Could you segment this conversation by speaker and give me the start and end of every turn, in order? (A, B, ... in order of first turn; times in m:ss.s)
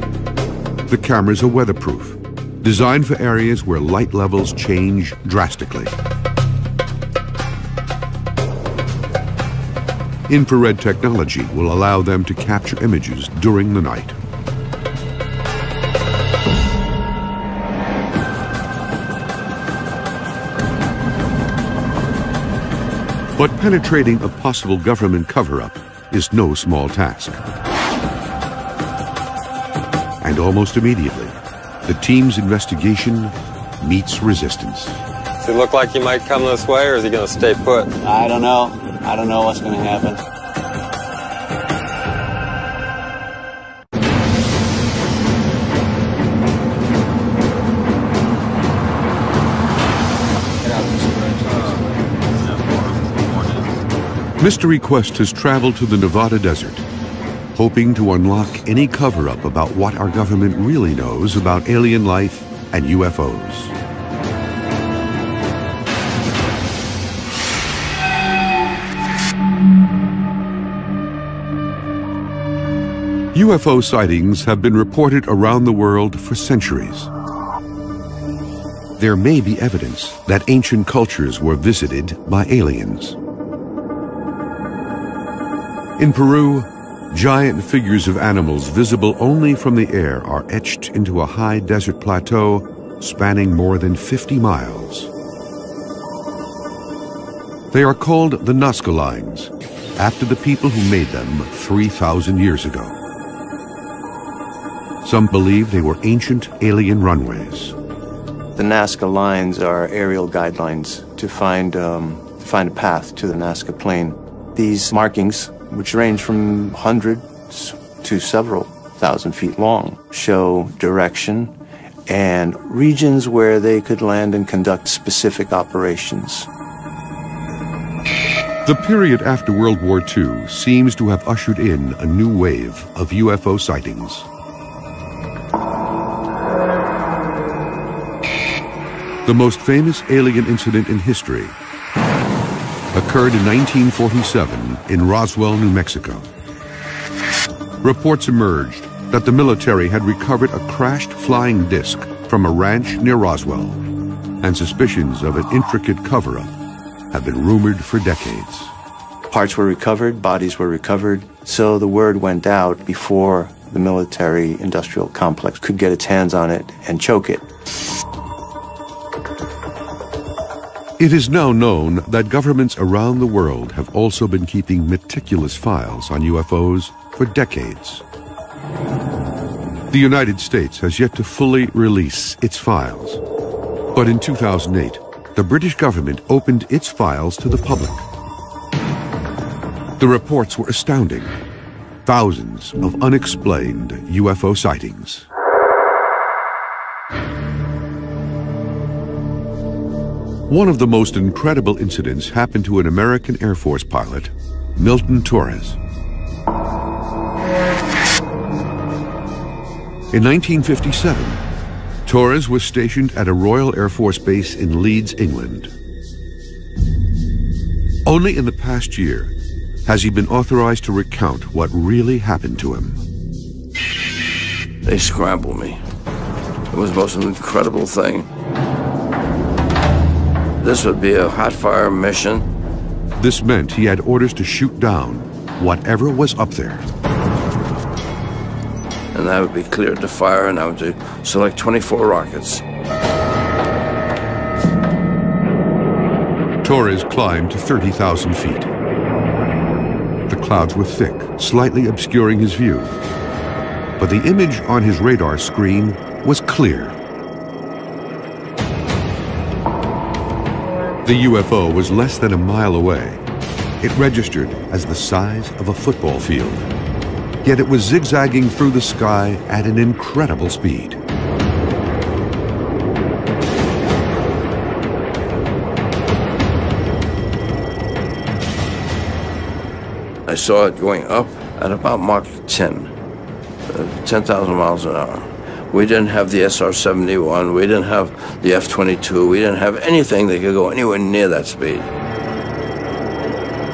0:00.9-0:05.9 A
0:10.3-0:14.2 A
0:23.4-0:27.4 A
0:30.2-0:35.0 A
0:35.4-0:37.9 B
0:38.0-0:40.2 C
0:50.6-0:52.0 C
0:51.5-0:53.8 B
0:54.4-0:56.8 A
0:57.6-1:03.7 A
1:13.3-1:17.1 A
1:19.0-1:23.2 A
1:26.0-1:35.1 A
1:37.7-1:43.0 A
1:45.0-1:47.8 A
1:48.6-2:01.5 D
2:02.1-2:06.5 D
2:08.6-2:14.3 A
2:19.2-2:21.6 A
2:22.9-2:26.3 A
2:27.8-2:33.8 A
2:34.4-2:36.5 A
2:37.1-2:38.7 A
2:39.3-2:47.5 D
2:51.0-2:58.0 A
2:59.9-3:03.2 A
3:04.0-3:08.0 A
3:10.0-3:11.4 A
3:12.0-3:15.3 A
3:20.5-3:25.8 A
3:30.1-3:31.4 A
3:32.1-3:35.7 A
3:38.0-3:39.3 A
3:39.9-3:43.0 A
3:44.8-3:45.8 E
3:46.7-3:48.3 E
3:50.6-3:52.5 E
3:53.2-3:56.8 A
3:59.1-4:02.6 E
4:06.6-4:08.7 A
4:10.3-4:12.9 A
4:14.0-4:17.0 A
4:21.0-4:23.2 A
4:23.8-4:26.7 A
4:27.4-4:31.0 A
4:40.3-4:42.9 E
4:43.7-4:51.9 E